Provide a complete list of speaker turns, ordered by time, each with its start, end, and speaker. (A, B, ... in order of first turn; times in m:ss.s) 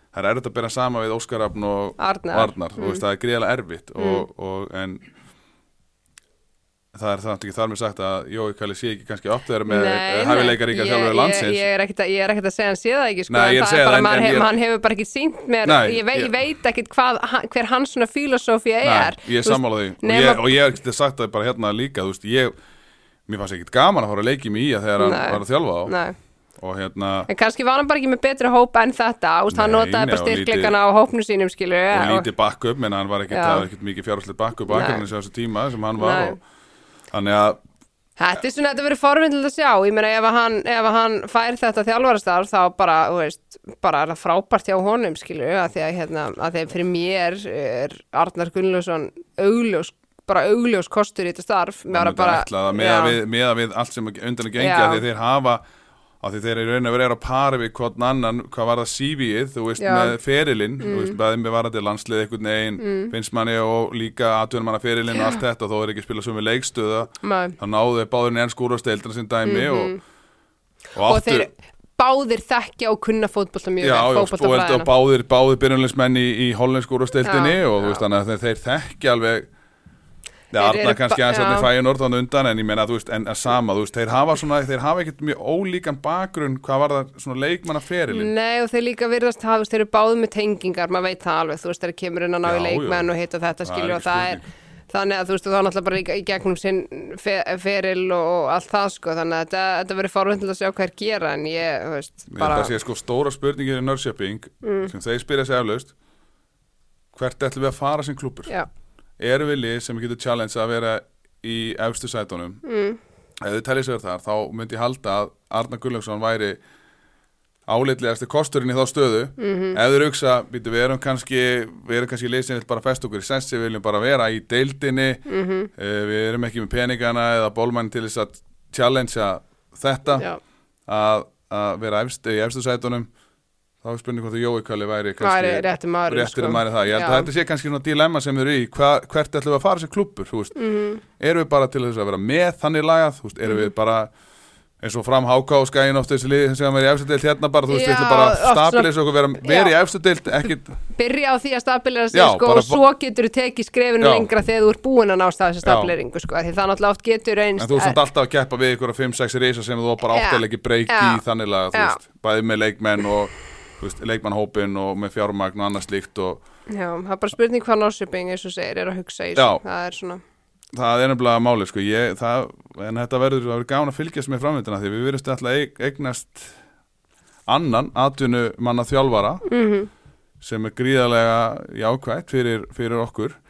0:00.1-0:05.0 A
0:02.0-0:03.0 B
0:04.0-0:04.2 B
0:06.9-0:11.7 A
0:09.7-0:20.4 B
0:13.3-0:14.5 A
0:15.6-0:16.3 A
0:18.8-0:22.5 A
0:23.3-0:26.0 A
0:25.0-0:26.2 B
0:26.6-0:27.3 A
0:27.3-0:32.3 B
0:29.5-0:30.8 A
0:31.9-0:36.4 A
0:33.3-0:33.7 B
0:34.7-0:35.0 B
0:36.0-0:36.4 B
0:37.1-0:37.6 A
0:38.2-0:53.2 B
0:51.9-0:55.6 A
0:54.6-0:55.0 B
0:56.2-1:10.0 A
0:59.8-1:00.2 B
1:00.8-1:01.2 B
1:02.8-1:03.1 B
1:05.2-1:05.4 B
1:07.2-1:07.6 B
1:09.4-1:10.0 B
1:10.9-1:11.5 A
1:11.0-1:14.9 B
1:13.8-1:19.5 A
1:17.2-1:18.0 B
1:20.5-1:28.3 A
1:20.6-1:21.7 B
1:28.1-1:42.7 B
1:32.4-1:33.1 A
1:33.6-1:34.4 A
1:42.3-1:45.9 A
1:44.6-1:44.9 B
1:47.1-1:48.6 A
1:49.2-1:52.6 A
1:52.6-1:53.0 B
1:53.4-1:56.6 A
1:57.7-2:10.3 A
1:59.4-1:59.8 B
2:05.3-2:05.7 B
2:10.9-2:13.1 A
2:13.8-2:20.6 A
2:15.2-2:17.3 B
2:20.6-2:21.0 B
2:21.1-2:24.1 A
2:24.8-2:30.8 A
2:27.7-2:29.8 B
2:30.9-2:38.0 B
2:32.1-2:32.8 A
2:34.0-2:34.3 A
2:35.6-2:35.9 A
2:37.6-2:46.4 A
2:40.1-2:41.2 B
2:41.7-2:42.0 B
2:46.7-2:50.2 B
2:49.4-2:49.6 A
2:50.7-2:56.6 A
2:57.5-2:59.5 A
2:59.5-2:59.9 B
3:00.4-3:03.4 A